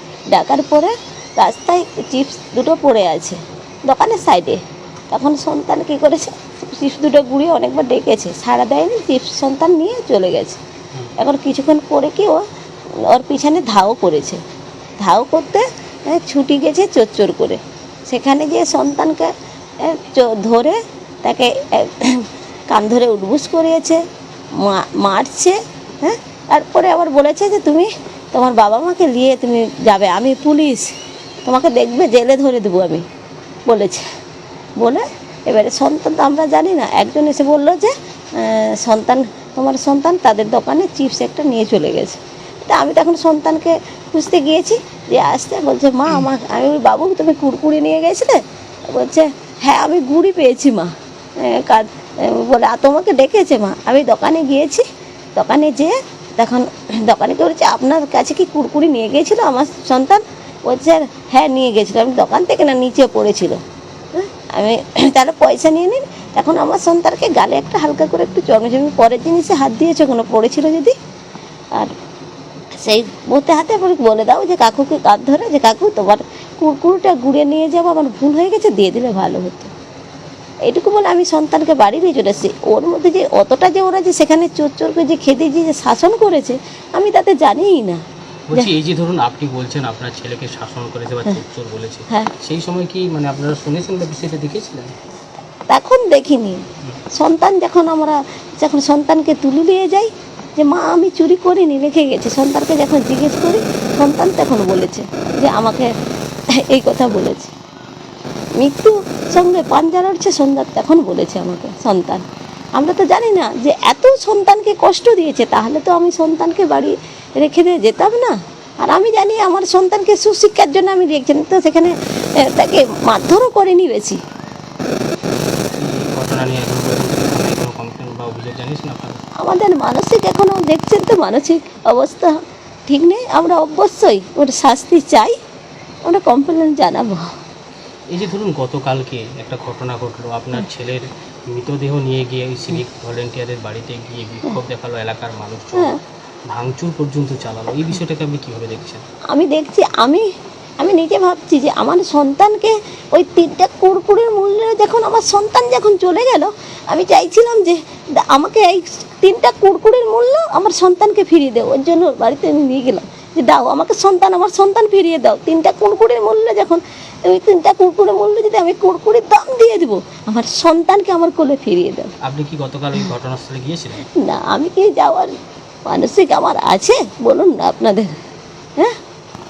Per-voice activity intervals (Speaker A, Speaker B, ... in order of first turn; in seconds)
Speaker A: 0.3-10.6, 11.2-12.4, 13.0-14.4, 15.0-24.0, 24.6-30.9, 31.4-33.0, 33.7-34.0, 34.8-54.8, 55.3-63.6, 64.1-70.9, 72.8-79.7, 80.7-88.0, 95.7-105.9, 106.6-107.5, 108.5-112.2, 112.8-124.2, 129.4-132.4, 132.9-135.3, 136.1-137.3, 149.3-150.2, 150.8-172.1, 174.2-175.3, 175.9-178.1
Speaker B: 88.5-94.9, 125.3-129.2, 138.1-145.9, 146.5-149.0, 172.2-174.1